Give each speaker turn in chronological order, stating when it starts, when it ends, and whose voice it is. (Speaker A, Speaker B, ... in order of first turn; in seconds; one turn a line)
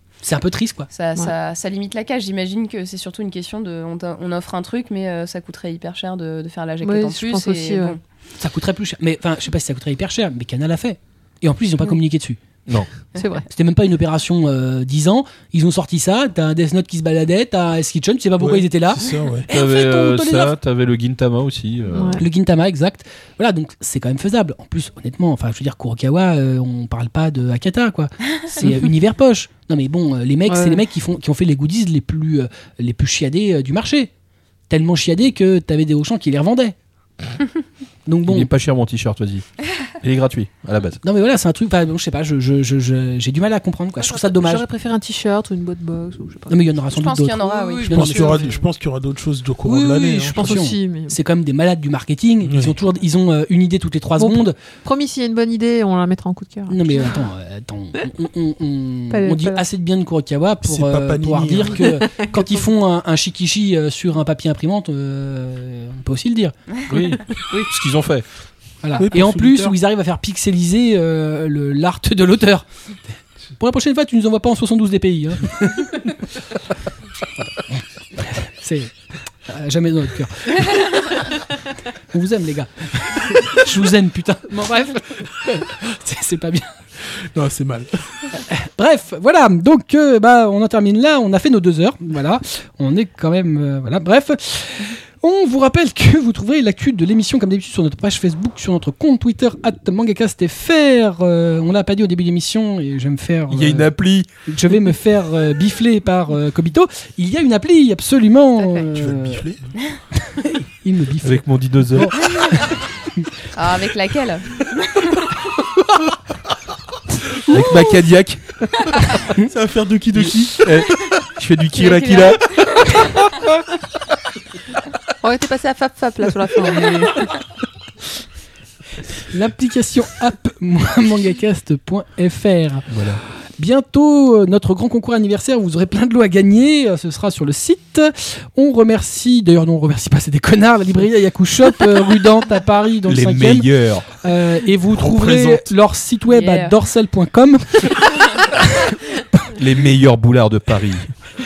Speaker A: 0.2-0.9
Speaker B: 0.9-8.0
Speaker C: 6.8-8.0
Speaker A: 8.4-12.4
Speaker C: 13.1-13.5
Speaker A: 13.5-20.6
Speaker D: 18.4-19.5
Speaker E: 19.5-22.2
Speaker C: 21.9-22.2
Speaker A: 22.2-34.1
Speaker C: 30.5-30.8
Speaker A: 34.7-36.7
Speaker A: 38.1-38.5
Speaker E: 38.3-39.5
Speaker E: 40.0-41.0
Speaker A: 41.0-44.6
Speaker C: 44.0-46.6
Speaker A: 46.5-48.5
Speaker B: 46.9-48.5
Speaker C: 47.4-48.6
Speaker D: 47.9-50.6
Speaker A: 49.6-54.6
Speaker C: 50.3-51.2
Speaker D: 52.5-52.7
Speaker C: 54.2-57.2
Speaker A: 56.7-66.6
Speaker C: 59.1-59.6
Speaker D: 60.6-62.0
Speaker C: 62.1-62.6
Speaker E: 66.9-68.2
Speaker A: 68.8-72.7
Speaker D: 69.0-69.7
Speaker A: 73.6-76.2
Speaker A: 77.7-78.9
Speaker A: 79.5-81.3
Speaker A: 82.1-86.7
Speaker D: 87.2-88.0
Speaker A: 88.5-103.9
Speaker E: 103.5-104.3
Speaker A: 104.4-109.4
Speaker C: 108.6-108.8
Speaker D: 108.9-109.6
Speaker A: 110.2-113.3
Speaker E: 111.2-112.2
Speaker B: 113.5-114.6
Speaker E: 117.5-119.2
Speaker D: 119.3-120.7
Speaker E: 120.2-123.1
Speaker C: 121.8-122.4
Speaker C: 125.2-127.3
Speaker A: 129.3-132.9
Speaker E: 132.9-133.2
Speaker A: 133.6-149.0
Speaker E: 143.1-144.1
Speaker D: 144.9-145.7
Speaker B: 146.3-146.7
Speaker E: 149.5-151.1